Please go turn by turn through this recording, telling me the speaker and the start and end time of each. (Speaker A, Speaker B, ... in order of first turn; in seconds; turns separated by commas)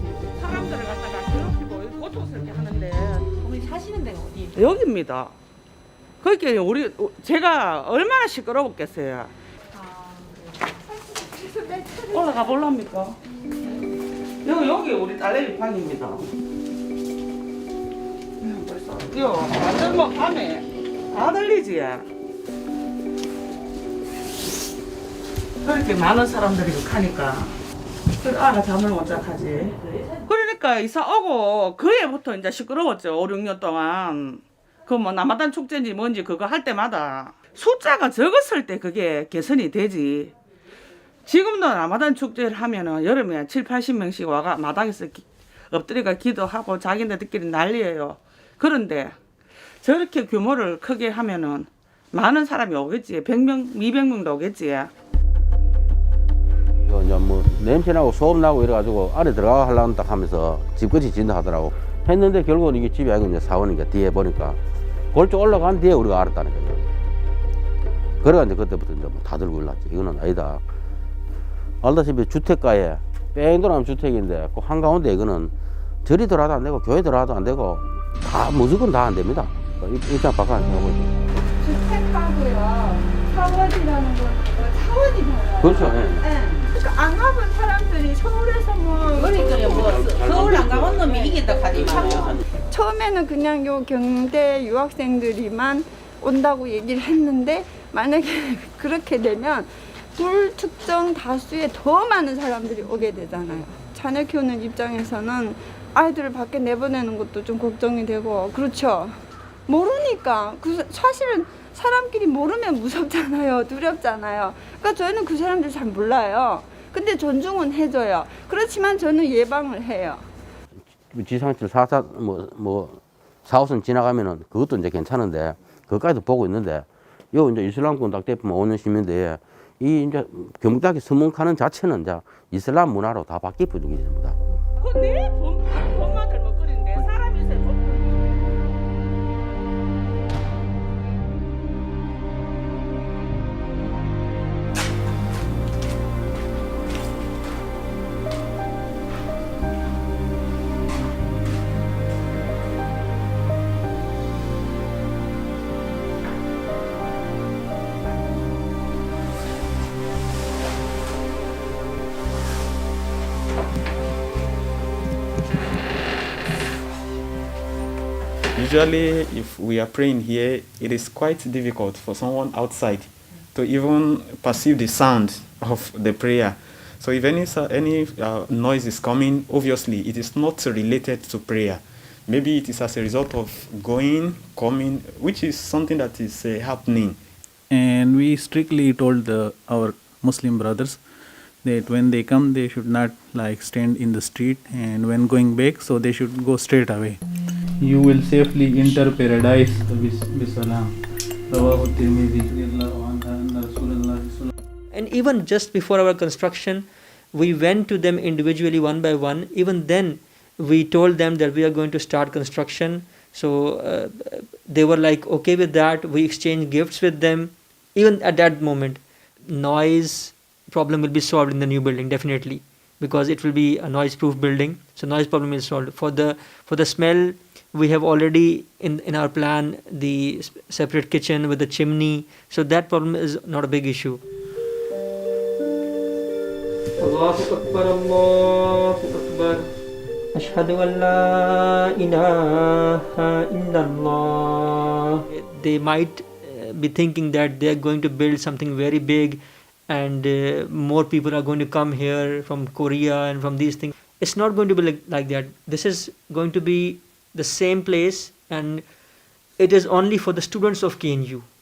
Speaker A: 0.3-3.5, Speaker B: 3.5-4.5, Speaker A: 4.5-5.3, Speaker A: 6.2-9.3, Speaker C: 10.7-12.9, Speaker A: 12.1-13.2, Speaker A: 14.4-16.3, Speaker A: 18.4-22.1, Speaker A: 25.6-27.6, Speaker A: 28.2-40.3, Speaker A: 41.3-49.2, Speaker A: 49.8-54.9, Speaker D: 56.9-64.6, Speaker D: 65.1-66.8, Speaker D: 68.2-70.6, Speaker D: 71.8-75.5, Speaker D: 76.0-81.1, Speaker C: 81.6-90.1, Speaker D: 85.6-86.2, Speaker B: 89.2-92.4, Speaker D: 90.0-91.0, Speaker C: 91.0-120.3, Speaker D: 121.1-134.4, Speaker A: 134.8-138.3, Speaker E: 168.6-187.2, Speaker F: 187.7-191.0, Speaker F: 191.6-197.2, Speaker F: 197.8-201.0, Speaker F: 201.5-204.5, Speaker G: 204.9-234.2, Speaker G: 237.0-239.7, Speaker G: 240.3-258.9, Speaker G: 259.6-261.5